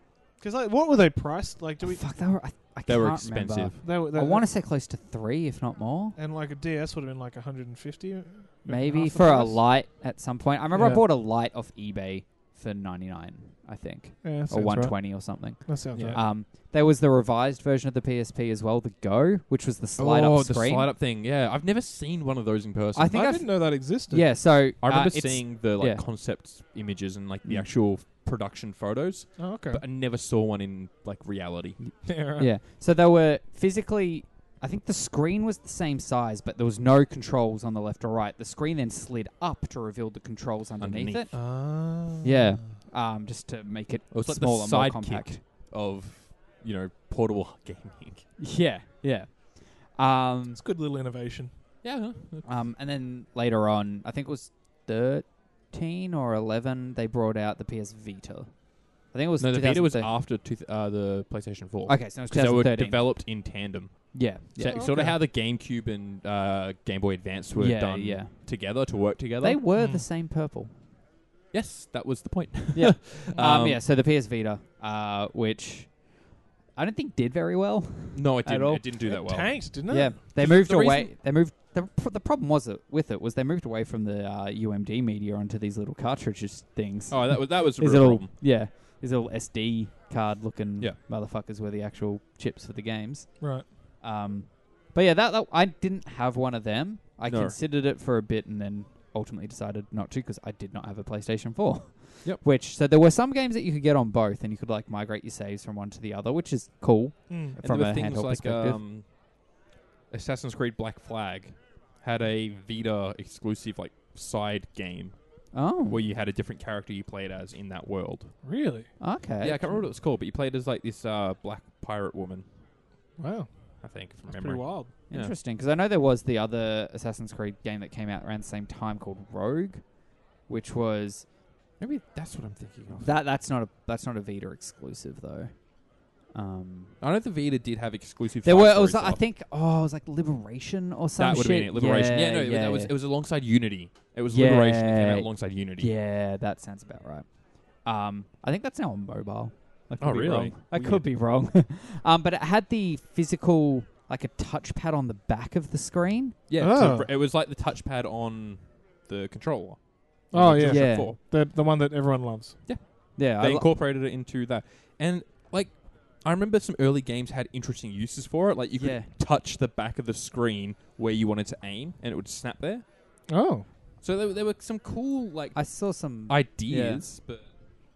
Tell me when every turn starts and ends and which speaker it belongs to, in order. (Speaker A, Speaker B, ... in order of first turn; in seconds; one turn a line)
Speaker A: 0.4-2.0
Speaker B: 1.8-6.2
Speaker C: 2.9-3.8
Speaker A: 3.8-4.5
Speaker A: 6.2-9.7
Speaker B: 8.7-20.9
Speaker A: 10.7-11.0
Speaker A: 14.2-16.2
Speaker C: 15.9-16.3
Speaker C: 20.0-23.3
Speaker B: 22.9-26.0
Speaker A: 23.1-24.3
Speaker C: 24.6-31.8
Speaker B: 27.4-27.7
Speaker A: 29.4-29.8
Speaker B: 31.8-45.4
Speaker A: 32.0-32.5
Speaker C: 40.8-41.3
Speaker A: 41.3-42.5
Speaker C: 44.1-48.3
Speaker B: 48.4-50.6
Speaker A: 50.5-51.5
Speaker C: 51.8-52.6
Speaker B: 52.4-60.1
Speaker C: 59.4-69.6
Speaker B: 61.9-64.9
Speaker A: 64.7-65.2
Speaker B: 67.5-68.8
Speaker B: 69.4-70.7
Speaker A: 69.7-70.0
Speaker C: 71.5-73.8
Speaker B: 72.7-108.8
Speaker C: 78.1-79.7
Speaker A: 79.0-80.3
Speaker C: 80.3-81.1
Speaker C: 87.1-88.3
Speaker A: 93.4-93.7
Speaker C: 97.3-97.6
Speaker A: 107.3-107.6
Speaker C: 107.6-109.2
Speaker C: 110.1-118.3
Speaker B: 115.5-116.0
Speaker A: 118.4-119.0
Speaker B: 119.0-119.8
Speaker C: 119.4-122.5
Speaker A: 123.2-124.9
Speaker C: 123.8-125.3
Speaker B: 125.1-131.3
Speaker C: 131.8-133.1
Speaker B: 133.0-136.9
Speaker C: 137.0-139.2
Speaker B: 138.4-142.9
Speaker C: 141.2-145.9
Speaker B: 144.3-156.4
Speaker C: 150.0-151.1
Speaker C: 156.5-161.2
Speaker A: 156.6-157.1
Speaker A: 160.3-162.6
Speaker B: 160.6-161.1
Speaker C: 162.7-172.9
Speaker B: 163.1-163.7
Speaker B: 168.7-169.1
Speaker A: 173.3-173.7
Speaker C: 174.0-177.5
Speaker B: 175.5-177.0